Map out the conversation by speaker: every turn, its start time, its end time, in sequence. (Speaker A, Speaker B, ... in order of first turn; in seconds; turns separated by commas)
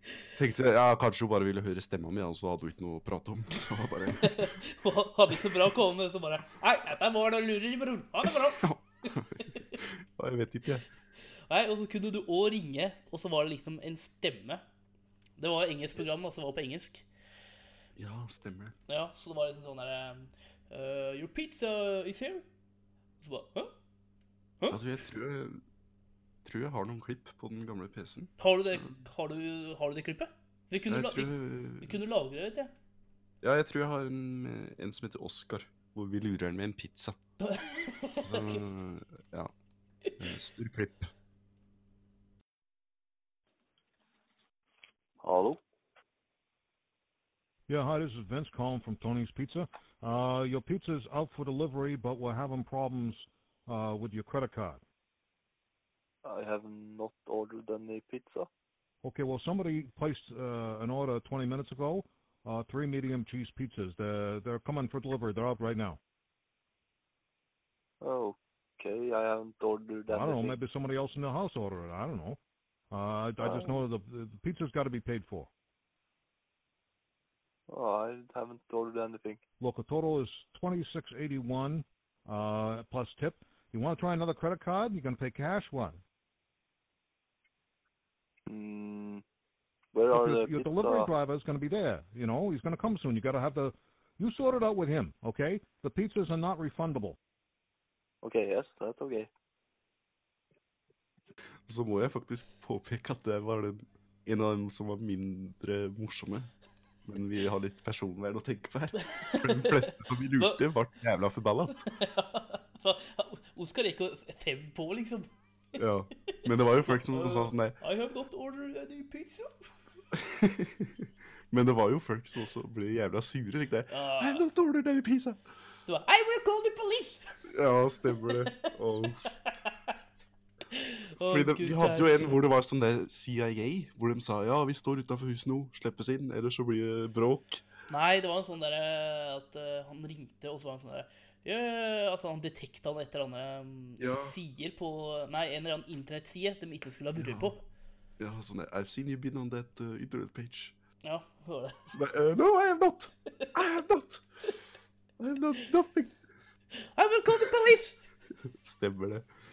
Speaker A: 0.3-4.5, Speaker B: 4.2-8.6, Speaker A: 8.2-10.8, Speaker B: 11.5-14.6, Speaker B: 15.4-17.0, Speaker A: 17.9-18.8, Speaker B: 18.9-22.4, Speaker B: 23.2-23.7, Speaker A: 24.7-25.6, Speaker A: 26.4-28.9, Speaker B: 28.4-32.7, Speaker A: 30.9-32.0, Speaker A: 33.4-37.2, Speaker B: 37.4-38.6, Speaker A: 38.2-39.5, Speaker A: 40.2-41.1, Speaker C: 45.2-45.6, Speaker D: 47.7-54.8, Speaker C: 56.2-58.5, Speaker D: 59.0-66.0, Speaker C: 68.0-70.6, Speaker D: 70.1-72.4, Speaker D: 72.9-75.5, Speaker C: 73.4-73.8, Speaker C: 77.7-79.4, Speaker D: 79.6-86.0, Speaker C: 88.5-89.2, Speaker C: 89.9-91.1, Speaker D: 90.1-97.2, Speaker C: 98.2-99.3, Speaker A: 101.7-106.5, Speaker A: 107.0-111.9, Speaker B: 109.0-110.6, Speaker B: 111.8-115.3, Speaker A: 115.8-117.8, Speaker B: 116.9-119.5, Speaker A: 120.1-125.4, Speaker B: 123.9-124.4, Speaker B: 125.8-127.2, Speaker A: 127.5-129.3, Speaker B: 128.2-128.7, Speaker B: 129.4-129.9, Speaker B: 130.7-132.3, Speaker A: 131.2-137.6, Speaker B: 137.9-147.6, Speaker A: 144.0-144.3, Speaker A: 147.2-147.5, Speaker A: 148.2-150.7, Speaker B: 151.0-151.8, Speaker A: 151.9-154.2, Speaker A: 155.2-156.2, Speaker B: 156.9-157.9, Speaker A: 158.4-159.3